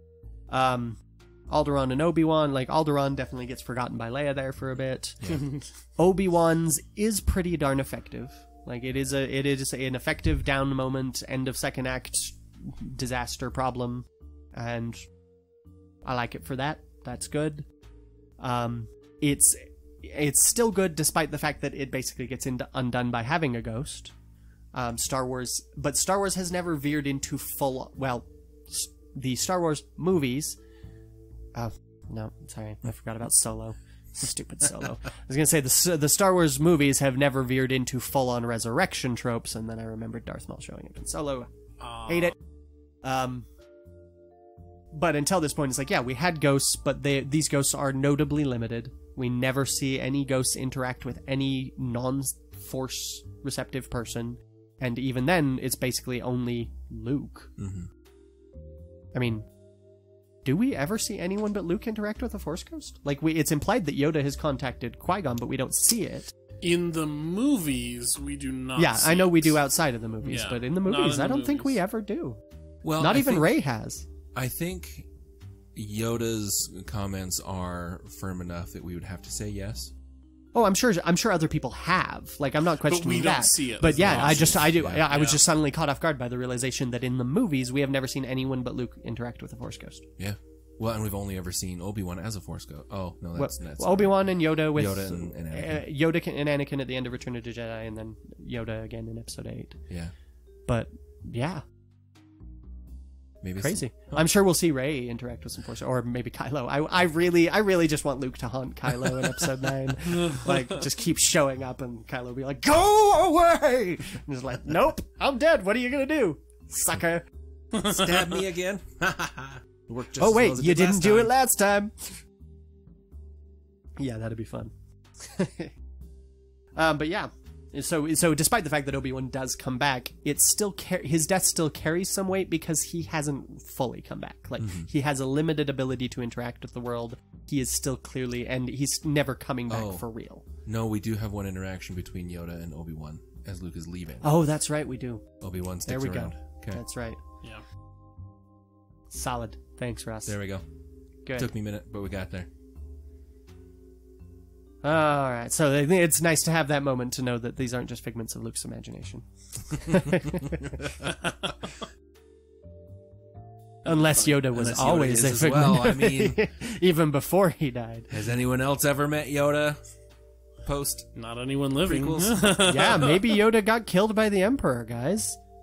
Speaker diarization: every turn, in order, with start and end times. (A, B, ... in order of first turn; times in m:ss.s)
0:00.5-0:05.2 A
0:05.2-0:05.7 B
0:06.0-0:15.0 A
0:16.0-0:17.6 A
0:18.4-0:24.1 A
0:24.7-0:30.6 A
0:31.5-0:41.5 A
0:41.8-0:42.3 B
0:42.1-0:42.3 A
0:43.0-0:43.4 A
0:44.9-0:57.5 A
0:57.6-0:57.9 C
0:59.1-0:59.4 A
1:00.4-1:06.3 A
1:06.6-1:09.6 B
1:08.8-1:12.4 A
1:10.2-1:11.8 B
1:12.8-1:13.5 C
1:13.0-1:14.1 A
1:14.3-1:15.1 C
1:15.7-1:19.9 C
1:20.5-1:30.1 A
1:22.8-1:25.4 B
1:23.9-1:25.1 C
1:30.2-1:35.8 C
1:33.4-1:39.8 A
1:40.7-1:41.6 A
1:43.4-1:44.2 C
1:43.6-1:57.2 A
1:57.7-1:58.1 B
1:57.8-2:01.3 C
2:00.2-2:02.2 A
2:04.0-2:05.7 A
2:06.8-2:20.4 A
2:14.6-2:14.9 C
2:19.7-2:20.0 C
2:20.6-2:24.3 C
2:24.2-2:25.2 A
2:25.4-2:26.8 C
2:25.8-2:27.2 A
2:29.1-2:30.4 A
2:30.2-2:30.6 C
2:31.3-2:32.5 C
2:34.8-2:40.7 A
2:43.8-2:45.2 B
2:43.8-2:48.1 A
2:44.5-2:46.5 C
2:48.1-2:49.8 C
2:50.6-2:51.1 C
2:51.1-2:53.4 B
2:51.8-2:52.5 C
2:52.6-2:55.4 A